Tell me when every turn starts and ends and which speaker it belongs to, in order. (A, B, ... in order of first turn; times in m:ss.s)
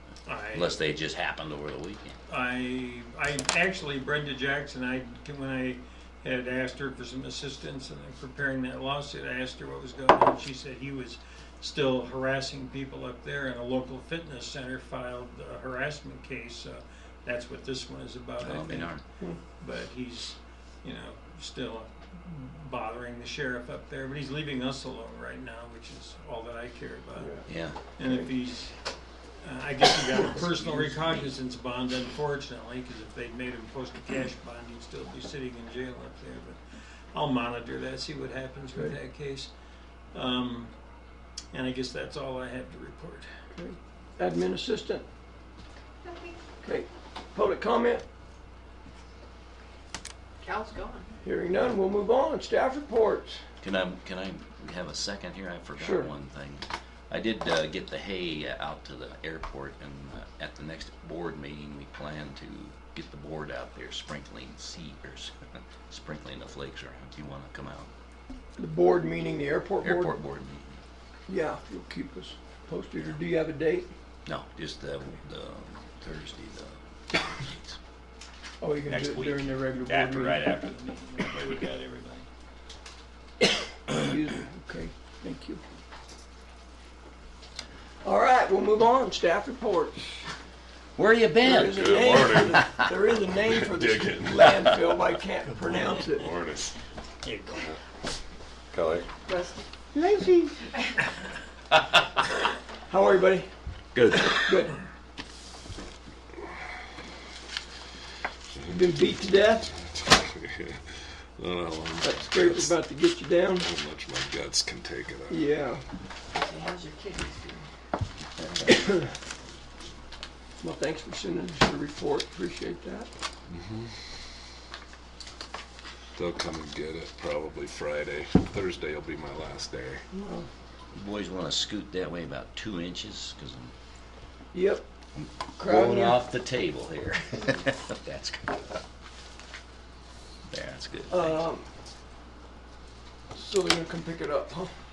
0:00.2-0:00.8 A
0:00.5-0:02.2 B
0:02.3-0:39.5 A
0:18.4-0:19.0 B
0:27.2-0:27.5 C
0:27.5-0:27.8 B
0:28.0-0:28.3 C
0:30.4-0:31.3 B
0:40.1-0:40.7 A
0:41.5-0:43.3 A
0:43.6-0:45.0 C
0:46.1-0:46.3 D
0:46.6-0:48.0 C
0:50.4-0:51.1 D
0:51.2-0:53.4 C
0:53.6-1:05.3 B
0:55.8-0:56.1 C
1:05.9-1:07.9 B
1:08.6-1:10.2 C
1:09.8-1:10.8 B
1:11.3-1:13.9 C
1:14.2-1:17.8 B
1:18.6-1:20.4 C
1:18.9-1:20.8 B
1:20.4-1:22.2 A
1:23.9-1:25.6 C
1:28.0-1:30.3 C
1:31.0-1:31.8 B
1:31.4-1:36.3 C
1:31.7-1:32.7 E
1:32.5-1:32.9 B
1:33.2-1:35.0 E
1:36.1-1:36.7 E
1:37.2-1:37.8 A
1:38.7-1:39.1 E
1:39.3-1:39.6 D
1:39.9-1:40.6 C
1:42.9-1:43.5 C
1:43.9-1:44.7 B
1:44.4-1:44.8 C
1:48.5-1:52.8 E
1:48.7-1:49.7 C
1:52.0-1:53.7 C
1:53.5-1:55.5 E
1:55.3-1:55.8 C
1:56.3-1:57.6 D
1:58.7-1:59.0 C
2:00.6-2:03.1 C
2:03.5-2:03.9 E
2:06.2-2:10.0 E
2:10.1-2:10.5 C
2:10.9-2:13.7 B
2:14.5-2:14.8 C
2:15.2-2:18.8 B
2:15.6-2:16.3 C
2:20.5-2:21.4 B
2:21.1-2:21.6 C
2:23.3-2:24.7 C